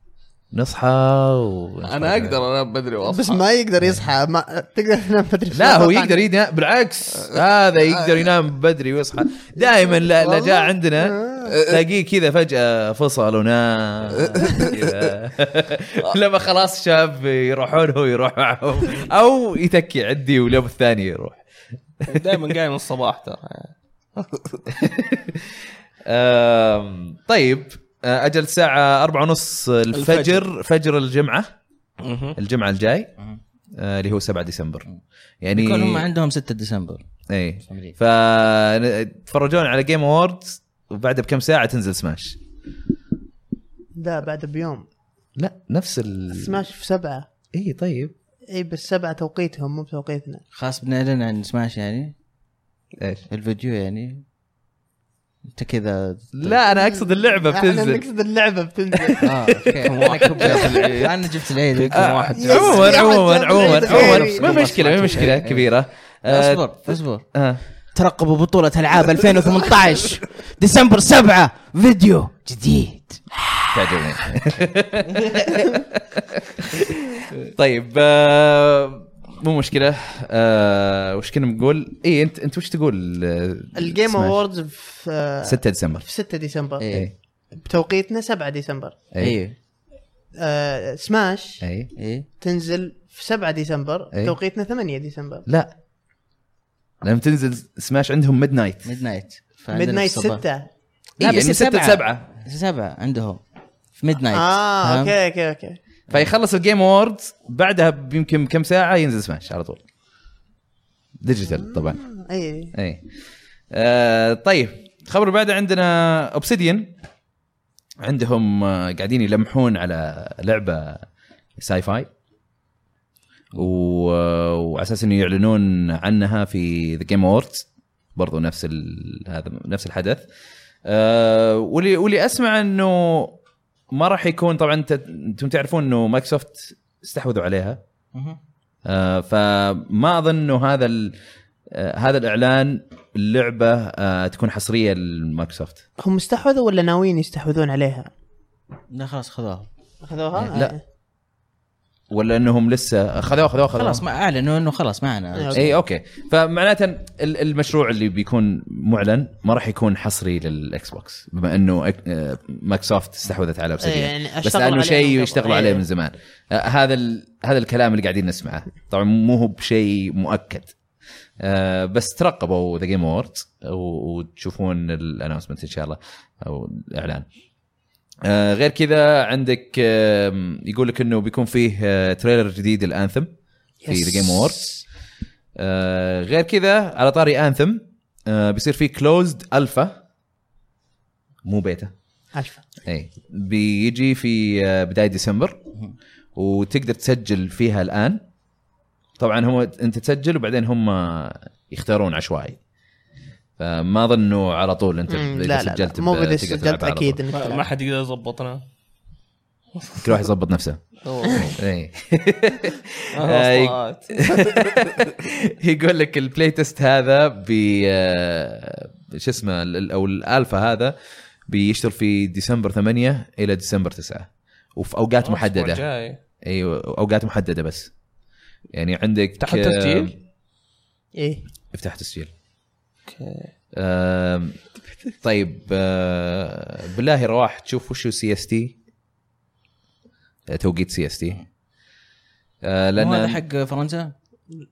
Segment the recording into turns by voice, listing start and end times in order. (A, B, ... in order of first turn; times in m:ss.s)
0:00.5-0:02.4 A
0:01.8-0:03.4 B
0:03.1-0:06.2 C
0:05.5-0:21.4 A
0:07.2-0:08.2 B
0:10.2-0:11.5 C
0:14.2-0:14.7 B
0:22.0-0:24.6 B
0:24.7-0:31.5 A
0:29.9-0:30.5 B
0:32.0-0:32.4 B
0:32.4-0:33.1 A
0:33.8-0:34.8 A
0:35.4-0:36.1 A
0:35.5-0:37.0 D
0:37.3-0:42.4 A
0:37.7-0:37.9 D
0:44.0-0:44.8 C
0:45.4-0:46.7 A
0:46.3-0:47.3 C
0:47.5-0:48.1 A
0:48.5-0:50.4 C
0:50.5-0:52.1 D
0:53.0-0:53.3 A
0:53.3-0:54.2 D
0:55.4-0:56.6 D
0:56.4-0:58.0 A
0:56.8-0:59.6 C
0:59.2-1:02.9 D
0:59.8-1:03.0 B
1:02.0-1:06.7 A
1:02.4-1:04.7 C
1:03.8-1:05.5 B
1:03.9-1:05.7 D
1:06.3-1:07.3 D
1:07.3-1:07.6 A
1:07.9-1:14.0 D
1:13.7-1:24.4 A
1:15.1-1:15.4 D
1:23.8-1:26.8 C
1:25.4-1:26.1 A
1:26.8-1:27.1 D
1:27.6-1:29.0 C
1:29.1-1:29.4 A
1:29.2-1:29.6 D
1:30.4-1:31.6 C
1:31.6-1:31.9 A
1:32.0-1:32.3 D
1:32.4-1:35.5 C
1:35.5-1:35.7 A
1:37.0-1:38.9 A
1:38.8-1:40.4 D
1:39.7-1:40.7 C
1:41.2-1:42.3 A
1:41.2-1:43.4 D
1:44.0-1:45.2 D
1:44.3-1:45.8 C
1:46.1-1:49.8 A
1:51.2-1:52.0 A
1:51.6-1:52.7 C
1:52.7-1:53.0 A
1:53.7-1:56.9 A
1:58.0-2:01.1 A
2:01.6-2:02.1 A
2:03.5-2:10.2 A
2:10.9-2:13.4 A
2:13.9-2:17.8 A
2:18.1-2:18.4 D
2:18.8-2:21.2 A
2:21.7-2:25.8 A
2:26.0-2:28.1 C
2:28.9-2:29.7 D
2:30.0-2:30.8 C
2:30.4-2:30.7 A
2:32.1-2:34.0 A
2:33.7-2:35.8 D
2:35.4-2:35.6 C
2:35.5-2:50.7 A
2:43.8-2:45.8 C
2:51.4-2:57.3 A
2:58.2-3:03.3 A
3:03.8-3:04.8 C
3:03.9-3:04.7 A
3:05.6-3:10.0 A
3:11.4-3:11.9 A
3:12.8-3:15.6 A
3:16.4-3:18.2 A
3:19.2-3:22.6 A
3:23.6-3:27.2 A
3:25.1-3:27.6 C
3:27.3-3:28.6 B
3:30.0-3:41.0 A
3:31.0-3:31.5 B
3:33.1-3:34.8 B
3:41.5-3:45.8 A
3:45.2-3:46.2 B
3:46.4-3:47.9 A
3:48.7-3:50.1 A
3:49.4-3:50.1 B
3:51.2-3:51.4 C
3:51.7-3:52.3 A
3:53.1-3:53.5 B
3:53.8-3:54.6 A
3:55.2-3:58.7 A
4:00.5-4:01.4 A
4:02.6-4:03.4 A
4:03.0-4:04.1 D